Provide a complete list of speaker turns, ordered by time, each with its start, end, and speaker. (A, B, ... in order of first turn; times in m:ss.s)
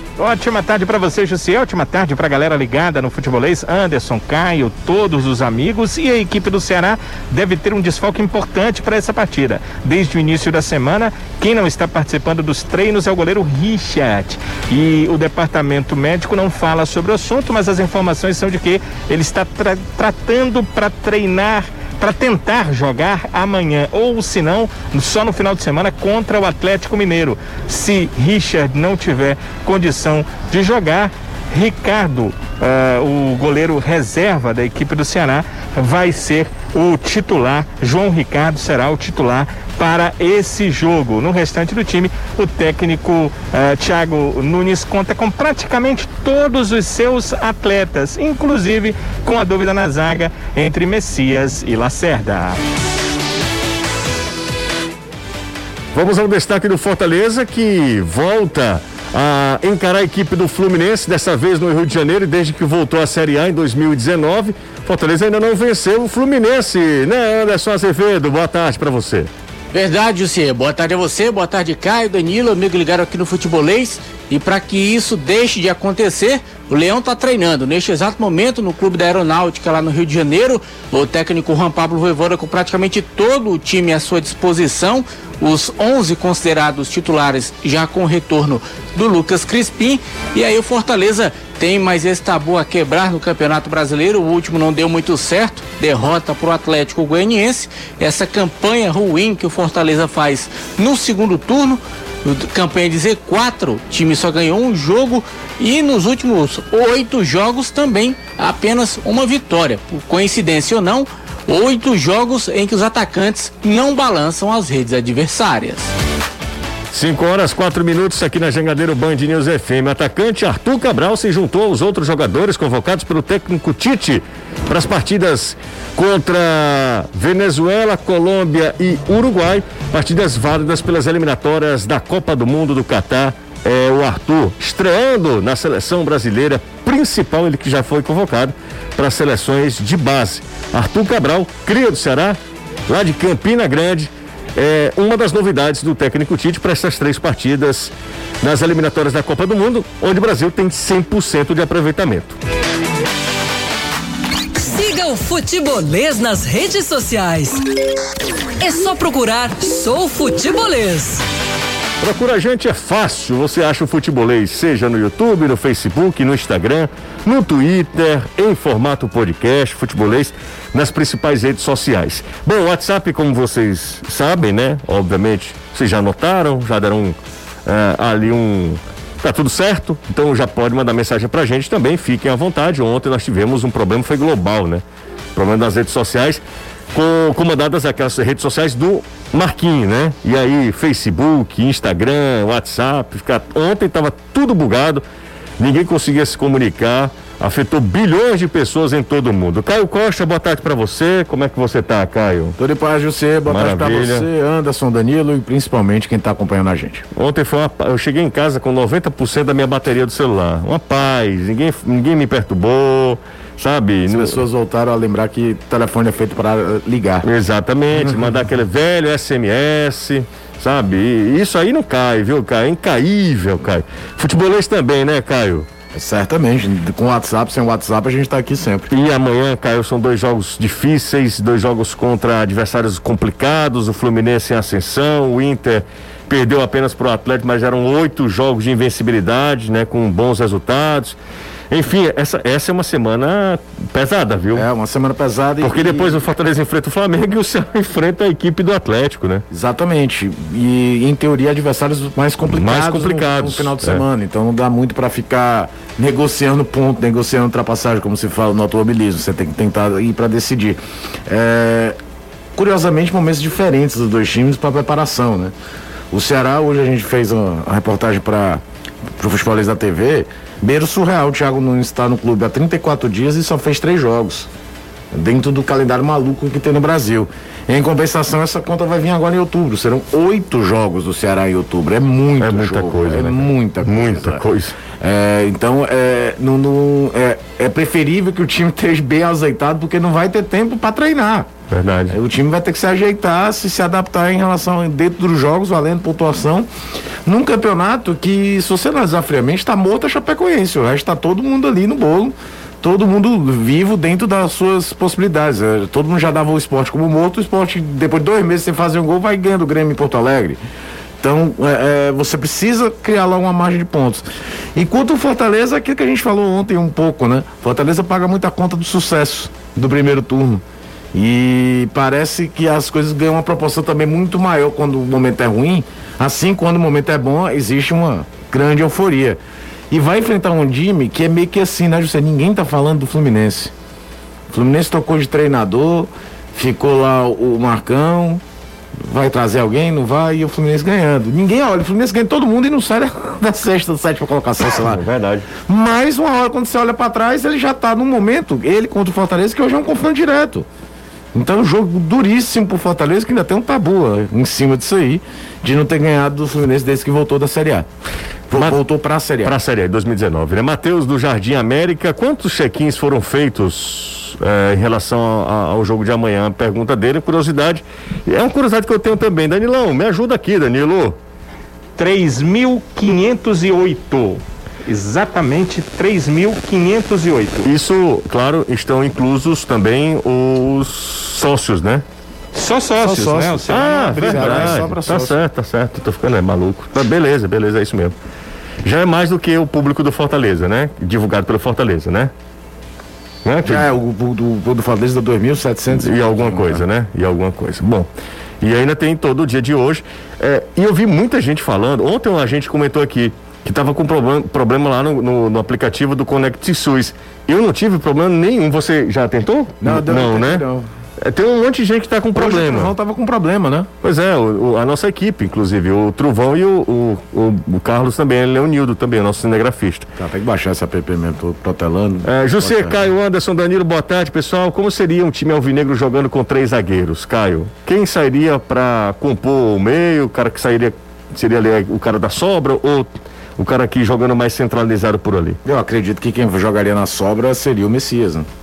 0:00.2-0:52.6 A
0:56.0-1:09.3 B
1:09.7-1:55.9 C
1:56.9-2:32.4 B
2:34.6-2:37.6 D
2:38.6-2:41.2 D
2:42.0-3:04.8 B
3:05.4-3:15.0 B
3:15.6-3:22.6 B
3:22.6-3:27.1 E
3:23.5-3:24.3 B
3:27.2-3:34.4 B
3:34.1-3:37.3 E
3:37.2-3:45.7 B
3:38.0-3:38.4 E
3:45.9-3:48.9 E
3:48.9-4:01.2 B
4:01.7-4:04.7 B
4:04.5-4:06.2 E
4:05.6-4:09.4 B
4:09.5-4:22.0 E
4:12.5-4:14.0 B
4:22.6-4:25.5 E
4:26.1-4:28.6 E
4:29.2-4:34.5 E
4:35.1-4:44.4 E
4:42.4-4:44.8 B
4:45.0-4:51.5 E
4:51.7-4:52.2 B
4:52.1-4:56.7 E
4:57.2-5:10.6 E
5:11.2-5:20.6 E
5:21.1-5:29.4 E
5:29.9-5:33.7 E
5:34.5-5:38.4 E
5:39.0-5:45.0 E
5:44.6-5:45.5 B
5:45.7-5:50.7 E
5:51.3-5:57.9 E
5:58.5-5:59.6 E
5:58.5-5:58.8 B
5:59.4-6:11.2 B
6:12.0-6:17.7 A
6:17.6-6:22.0 B
6:22.6-6:24.9 A
6:23.0-6:25.4 E
6:23.7-6:28.2 B
6:28.8-6:32.3 B
6:33.4-6:33.9 B
6:33.6-6:36.8 E
6:35.9-6:38.1 B
6:38.6-6:50.7 B
6:49.8-6:50.9 E
6:51.2-6:52.9 B
6:52.4-6:53.9 E
6:54.0-7:00.1 B
7:00.2-7:03.0 E
7:02.2-7:15.6 B
7:15.6-7:18.5 E